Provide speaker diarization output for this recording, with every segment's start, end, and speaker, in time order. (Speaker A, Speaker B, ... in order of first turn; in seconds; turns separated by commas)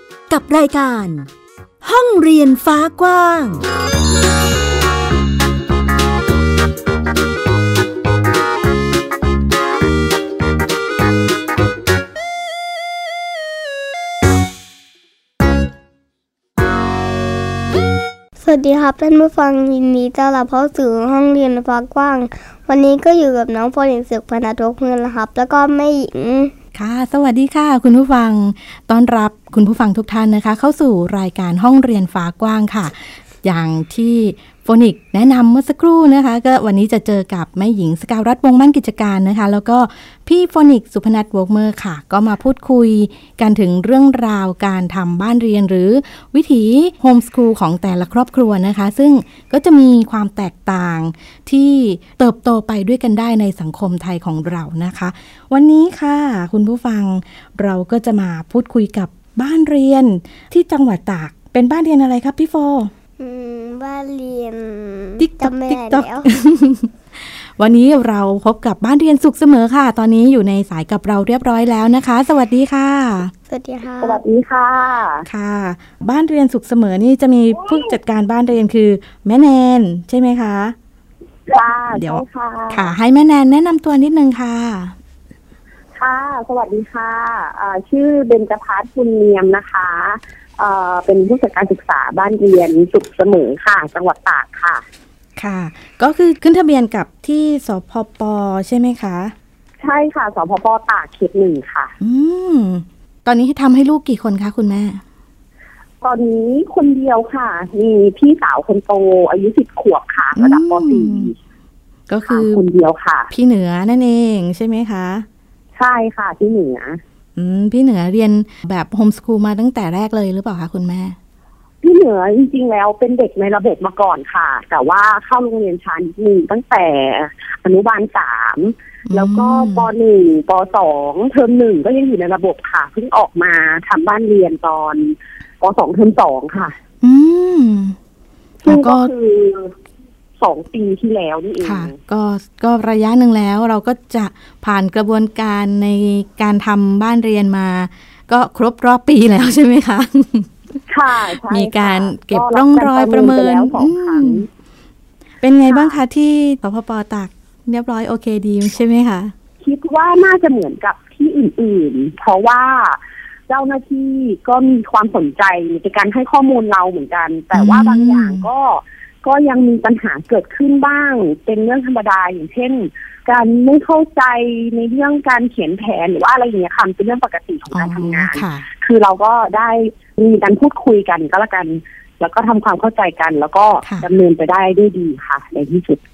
Speaker A: 0.3-1.3, Speaker A: 1.8-3.6, Speaker B: 18.4-26.5, Speaker C: 26.7-62.9, Speaker B: 63.2-66.3, Speaker C: 65.2-73.3, Speaker B: 73.5-74.2, Speaker D: 74.0-75.3, Speaker C: 75.3-80.8, Speaker D: 81.5-82.9, Speaker C: 82.0-85.0, Speaker D: 86.0-94.8, Speaker C: 95.4-99.3, Speaker D: 99.8-101.9, Speaker C: 102.0-105.0, Speaker D: 106.0-111.4, Speaker C: 110.4-111.3, Speaker C: 112.1-112.6, Speaker D: 112.3-113.3, Speaker C: 113.3-115.3, Speaker D: 115.8-117.0, Speaker C: 117.4-121.2, Speaker D: 121.8-136.8, Speaker C: 129.1-129.9, Speaker C: 137.0-138.0, Speaker D: 138.6-139.8, Speaker C: 138.7-139.1, Speaker D: 140.4-142.0, Speaker C: 141.6-150.5, Speaker D: 150.9-154.5, Speaker C: 151.5-154.5, Speaker C: 155.4-159.3, Speaker D: 155.7-156.0, Speaker D: 159.6-186.0, Speaker C: 167.5-168.5, Speaker C: 177.7-178.7